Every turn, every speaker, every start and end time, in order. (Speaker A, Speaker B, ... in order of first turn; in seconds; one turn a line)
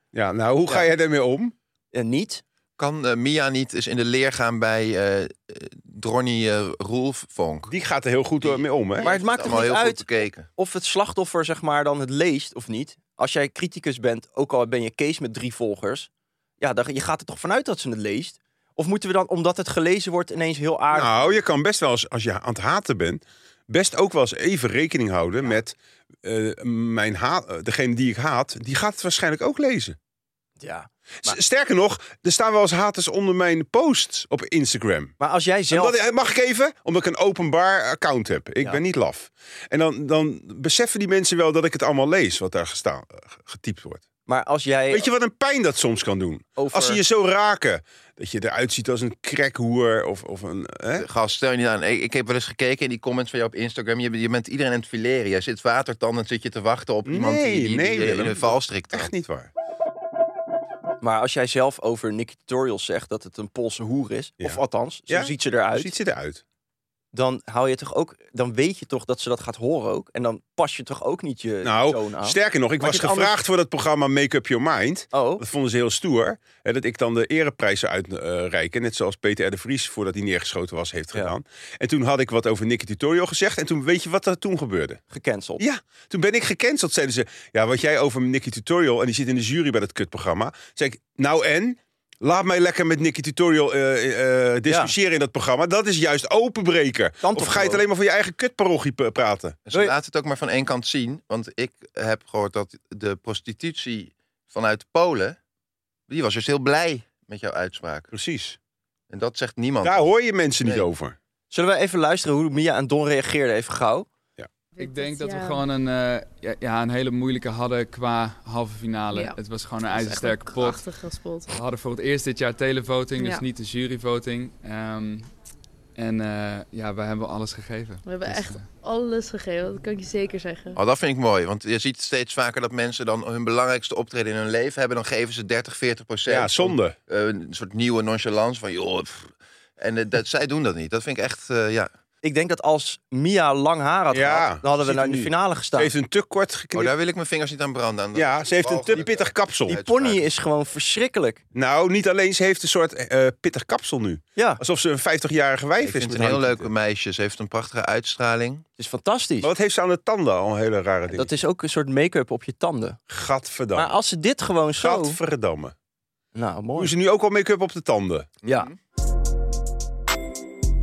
Speaker A: 0.1-1.5
Speaker B: 1.9-2.4
Speaker C: 2.8-7.7
Speaker A: 7.7-9.1
Speaker C: 8.4-10.5
Speaker B: 9.0-16.1
Speaker B: 16.6-21.4
Speaker A: 20.9-29.9
Speaker B: 30.6-31.4
Speaker A: 31.2-35.1
Speaker B: 35.2-36.0
Speaker A: 35.7-44.0
Speaker B: 44.3-45.1
Speaker A: 44.9-51.0
Speaker B: 46.5-47.0
Speaker C: 51.0-59.1
Speaker A: 57.0-59.5
Speaker B: 61.0-65.9
Speaker A: 64.4-66.4
Speaker B: 67.1-73.3
Speaker A: 71.6-85.0
Speaker B: 75.1-75.4
Speaker B: 85.1-85.6
Speaker A: 85.6-99.6
Speaker B: 94.7-94.9
Speaker B: 97.2-97.8
Speaker C: 99.7-105.4
Speaker C: 106.1-108.1
Speaker A: 108.1-108.6
Speaker C: 109.1-110.1
Speaker A: 109.8-111.1
Speaker B: 111.5-114.1
Speaker D: 114.8-115.7
Speaker E: 114.8-120.9
Speaker D: 119.1-119.4
Speaker D: 119.9-121.5
Speaker E: 121.5-125.3
Speaker D: 123.2-123.4
Speaker E: 126.0-128.7
Speaker D: 128.0-130.8
Speaker C: 130.8-141.9
Speaker A: 136.3-136.9
Speaker B: 142.2-145.9
Speaker A: 144.1-146.9
Speaker C: 146.7-150.2
Speaker A: 148.1-149.8
Speaker B: 149.7-151.4
Speaker A: 151.5-156.7
Speaker B: 154.3-154.6
Speaker C: 155.8-158.6
Speaker B: 158.8-159.5
Speaker A: 159.4-161.3
Speaker B: 161.1-163.0
Speaker A: 163.1-163.9
Speaker B: 163.7-165.2
Speaker A: 164.8-165.7
Speaker B: 166.3-166.9
Speaker A: 166.8-168.3
Speaker C: 168.4-168.7